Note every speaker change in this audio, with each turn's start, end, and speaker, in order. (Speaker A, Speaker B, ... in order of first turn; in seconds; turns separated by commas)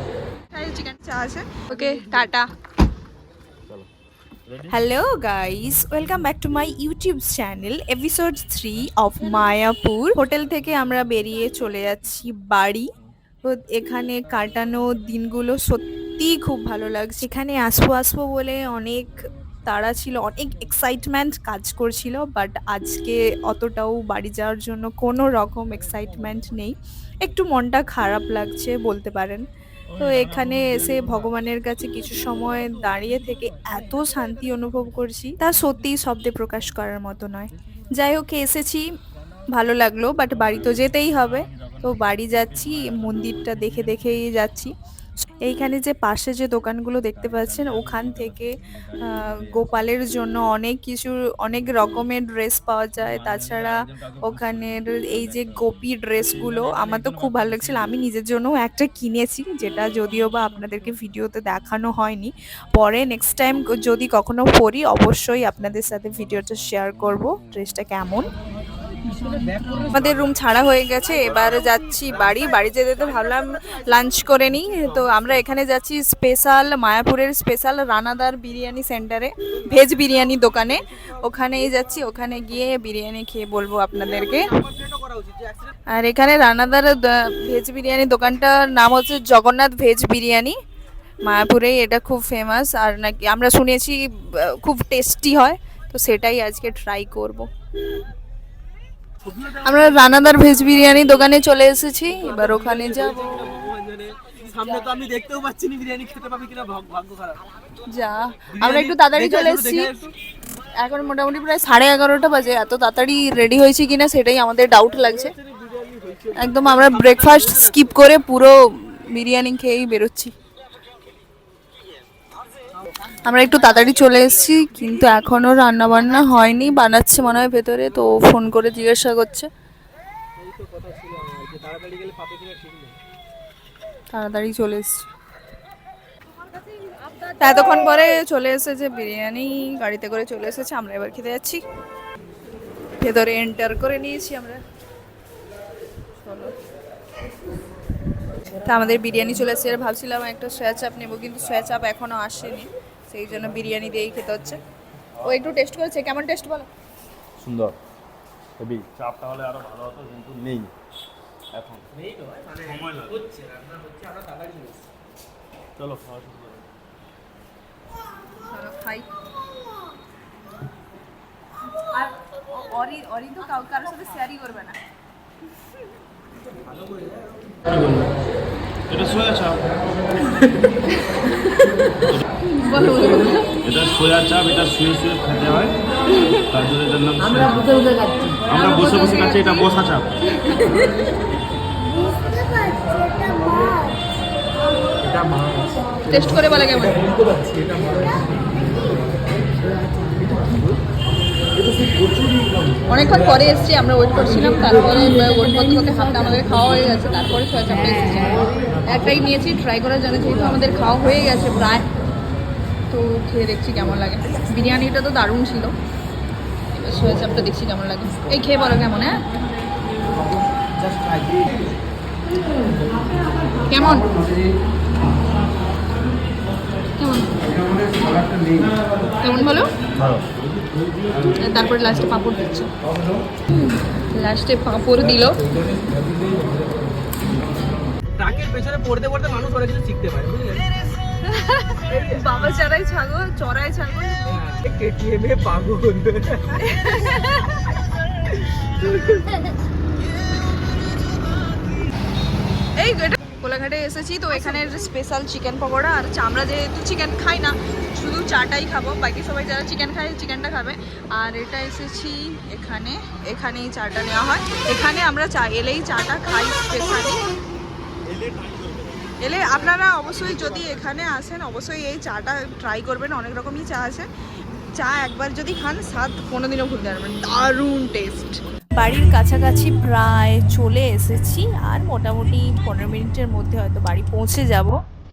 Speaker A: 0.5-2.5, Speaker B: 1.8-2.1, Speaker A: 4.7-12.9, Speaker A: 13.4-29.4, Speaker A: 29.9-38.8, Speaker A: 39.5-44.7, Speaker A: 45.4-68.3, Speaker B: 69.5-69.8, Speaker A: 69.6-84.5, Speaker B: 72.1-72.4, Speaker B: 74.8-75.1, Speaker B: 79.6-81.7, Speaker B: 84.0-85.7, Speaker A: 85.9-90.6, Speaker A: 91.2-97.5, Speaker B: 99.2-100.2, Speaker A: 99.6-103.4, Speaker B: 102.2-107.4, Speaker A: 107.9-109.9, Speaker B: 108.5-110.1, Speaker A: 110.8-115.3, Speaker B: 115.0-117.9, Speaker A: 116.3-120.3, Speaker A: 123.2-129.5, Speaker B: 130.4-133.0, Speaker A: 134.1-135.1, Speaker A: 137.4-141.6, Speaker A: 143.0-144.6, Speaker A: 146.2-146.5, Speaker A: 148.6-154.6, Speaker A: 155.2-156.7, Speaker C: 157.4-157.8, Speaker C: 158.6-160.7, Speaker C: 161.5-161.8, Speaker B: 161.9-164.8, Speaker C: 162.6-163.2, Speaker C: 165.8-166.7, Speaker A: 168.5-169.1, Speaker A: 171.8-174.8, Speaker B: 176.6-177.7, Speaker C: 177.7-178.1, Speaker C: 178.9-179.7, Speaker A: 182.5-183.6, Speaker C: 183.6-185.8, Speaker A: 186.1-186.4, Speaker C: 186.4-187.9, Speaker C: 188.4-190.1, Speaker A: 188.5-189.7, Speaker A: 190.3-190.9, Speaker A: 196.1-197.1, Speaker B: 197.3-198.3, Speaker B: 200.0-200.8, Speaker A: 202.9-211.9, Speaker A: 212.9-215.8, Speaker A: 216.7-219.2, Speaker B: 220.8-221.5, Speaker A: 223.7-224.1, Speaker A: 227.0-227.4, Speaker A: 229.2-229.7, Speaker C: 231.1-231.4, Speaker A: 231.4-232.7, Speaker A: 233.5-235.4, Speaker B: 238.2-240.7, Speaker A: 241.2-244.4, Speaker B: 241.9-242.4, Speaker B: 244.3-246.7, Speaker A: 246.6-247.6, Speaker B: 248.8-249.5, Speaker A: 252.8-267.3, Speaker B: 268.1-270.7, Speaker A: 269.2-274.1, Speaker A: 274.7-284.8